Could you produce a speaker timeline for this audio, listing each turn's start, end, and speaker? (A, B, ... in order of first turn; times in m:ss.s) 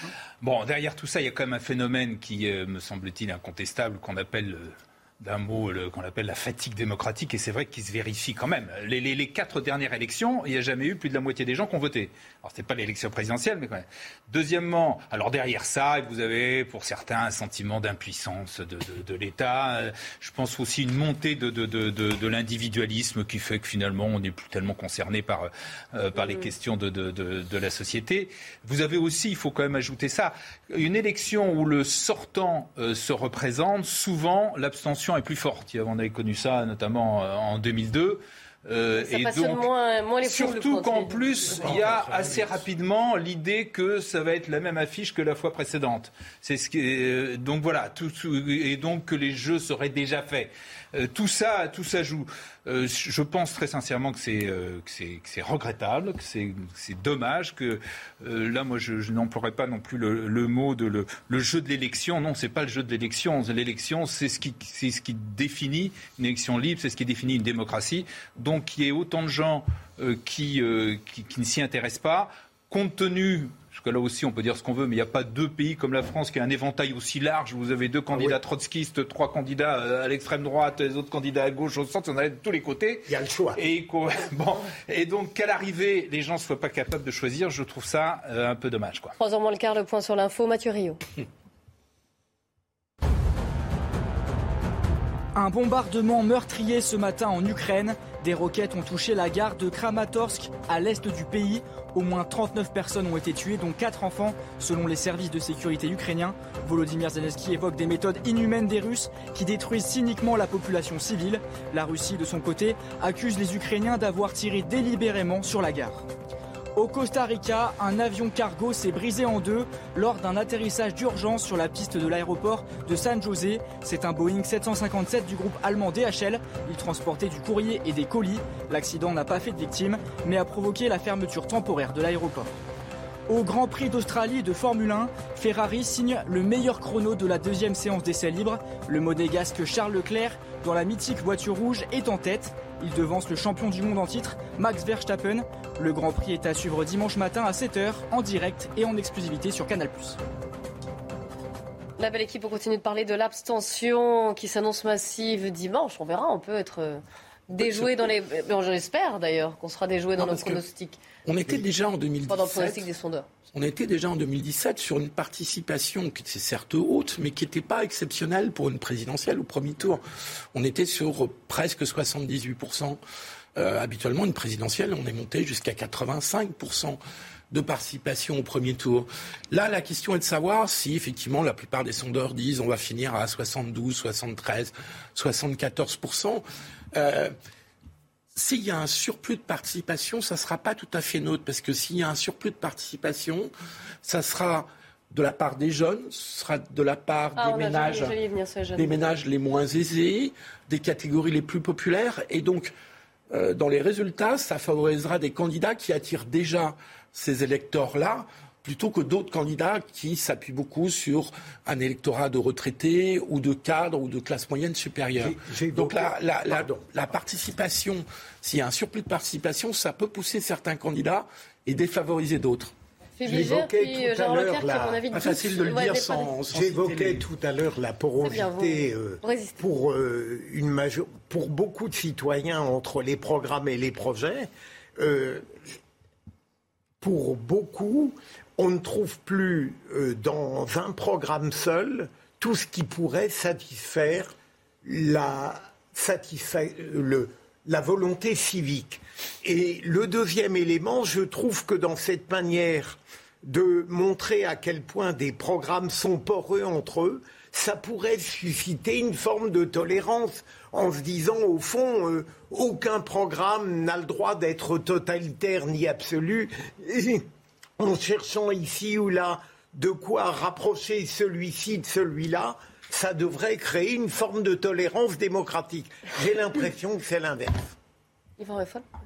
0:00.4-0:39.7 A
0:26.2-0:26.5 B
0:39.0-0:41.7 B
0:40.2-1:29.2 A
0:41.4-0:42.6 C
1:18.1-1:18.4 D
1:23.1-1:23.6 D
1:29.2-1:31.0 B
1:35.4-1:56.0 E
1:56.8-2:12.5 E
2:13.3-2:30.2 E
2:32.0-2:41.0 B
2:37.6-2:38.1 C
2:40.2-2:40.6 C
2:41.2-2:42.9 C
2:42.3-2:43.3 B
2:43.5-2:50.0 C
2:50.5-2:53.0 C
2:53.6-2:57.0 C
2:57.5-3:07.3 C
3:08.3-3:13.5 C
3:14.0-3:18.2 C
3:17.4-3:18.9 B
3:18.8-3:22.7 C
3:23.3-3:42.7 C
3:35.2-3:36.8 D
3:43.2-3:46.4 B
3:43.2-3:45.0 D
3:45.1-3:47.2 C
3:46.5-3:55.7 D
3:48.2-3:49.6 B
3:57.0-4:27.2 D
4:27.8-4:37.7 D
4:38.4-4:38.8 B